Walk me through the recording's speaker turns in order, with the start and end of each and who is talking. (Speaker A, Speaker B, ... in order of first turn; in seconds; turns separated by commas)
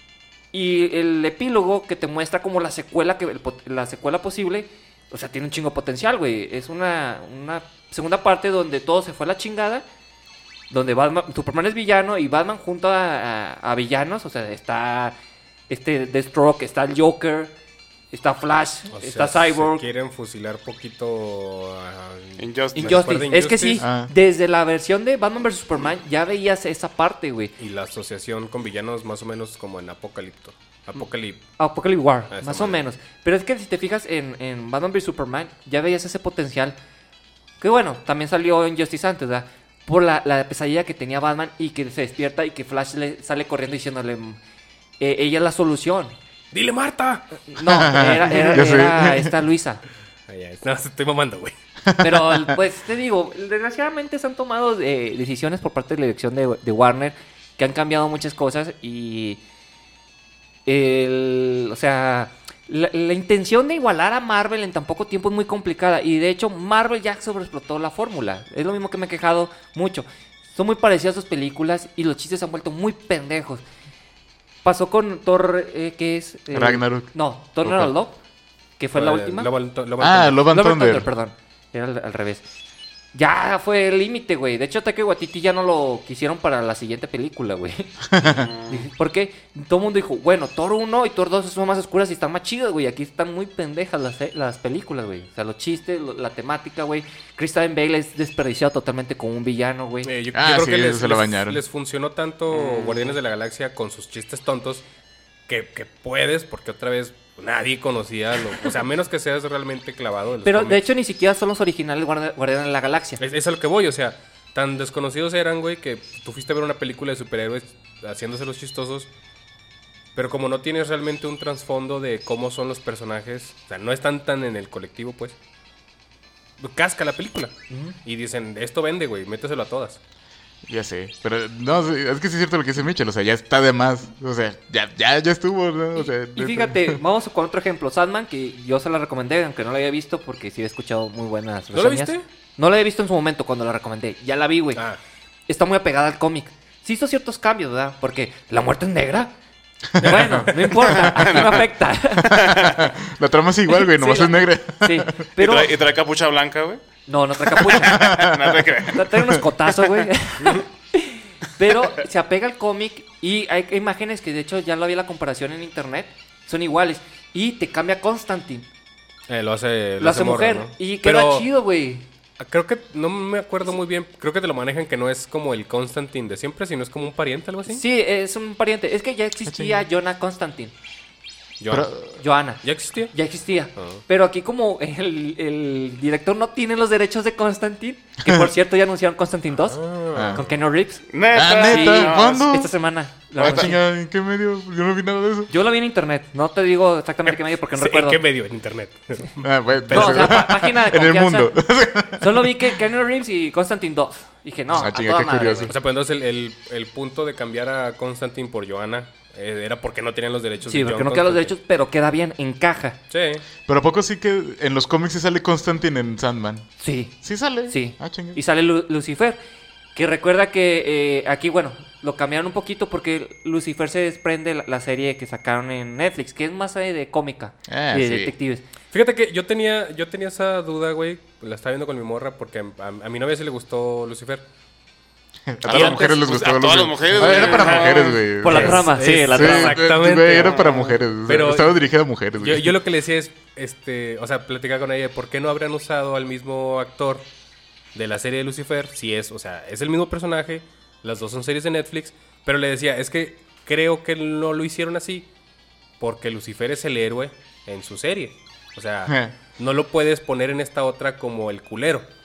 Speaker A: 0.5-9.8, Speaker A: 10.7-15.2, Speaker A: 15.7-17.5, Speaker A: 18.1-19.9, Speaker B: 18.9-23.8, Speaker C: 22.4-23.3, Speaker A: 22.8-27.5, Speaker D: 23.8-24.1, Speaker B: 27.6-31.4, Speaker A: 31.6-36.8, Speaker B: 32.3-32.8, Speaker A: 37.6-44.4, Speaker A: 45.0-46.1, Speaker B: 46.5-47.4, Speaker A: 47.5-49.8, Speaker D: 47.7-49.3, Speaker B: 50.3-51.5, Speaker D: 51.9-52.6, Speaker A: 52.0-59.4, Speaker A: 60.7-73.6, Speaker A: 74.6-78.2, Speaker D: 76.5-77.1, Speaker D: 77.6-77.9, Speaker A: 78.8-79.5, Speaker B: 79.0-80.4, Speaker D: 80.0-81.1, Speaker A: 80.5-82.4, Speaker A: 83.1-88.1, Speaker D: 88.1-88.5, Speaker C: 88.2-88.9, Speaker A: 88.7-100.1, Speaker B: 100.0-104.8, Speaker D: 100.3-101.6, Speaker C: 102.5-103.2, Speaker B: 105.5-110.9, Speaker A: 110.5-113.2, Speaker B: 113.2-119.1, Speaker B: 120.2-125.3, Speaker B: 126.6-130.0, Speaker A: 127.7-128.0, Speaker D: 130.7-137.0, Speaker A: 136.0-144.8, Speaker B: 141.7-142.2, Speaker A: 145.5-149.3, Speaker D: 149.9-151.5, Speaker A: 150.0-152.4, Speaker B: 150.0-150.7, Speaker C: 150.9-151.7, Speaker D: 152.2-155.2, Speaker C: 152.3-152.9, Speaker A: 153.7-155.7, Speaker C: 155.4-156.8, Speaker A: 157.1-158.2, Speaker C: 157.5-159.1, Speaker D: 157.8-159.2, Speaker A: 158.9-168.7, Speaker B: 169.3-171.5, Speaker A: 170.0-172.1, Speaker B: 172.4-177.8, Speaker A: 177.7-180.7, Speaker D: 179.5-179.8, Speaker B: 181.6-181.9, Speaker D: 181.7-182.2, Speaker A: 182.2-191.1, Speaker B: 182.6-183.1, Speaker B: 183.8-184.0, Speaker D: 188.2-188.5, Speaker B: 189.7-190.6, Speaker D: 190.1-190.4, Speaker C: 191.1-192.5, Speaker D: 191.3-192.7, Speaker A: 191.6-193.8, Speaker D: 193.4-195.5, Speaker C: 193.4-193.7, Speaker A: 195.5-198.2, Speaker B: 197.8-200.5, Speaker D: 199.4-202.8, Speaker A: 199.9-201.5, Speaker A: 202.2-205.7, Speaker D: 204.7-205.7, Speaker B: 205.7-211.5, Speaker A: 210.7-213.0, Speaker B: 213.1-213.4, Speaker D: 213.7-216.7, Speaker A: 216.8-217.2, Speaker D: 217.2-218.4, Speaker A: 217.7-219.4, Speaker A: 219.9-228.6, Speaker D: 227.7-228.3, Speaker B: 228.9-234.4, Speaker D: 235.5-242.8, Speaker C: 235.7-238.2, Speaker A: 238.4-239.8, Speaker B: 238.5-241.8, Speaker C: 240.4-240.9, Speaker B: 242.4-247.2, Speaker B: 247.9-255.3, Speaker B: 256.0-262.1, Speaker D: 259.1-259.4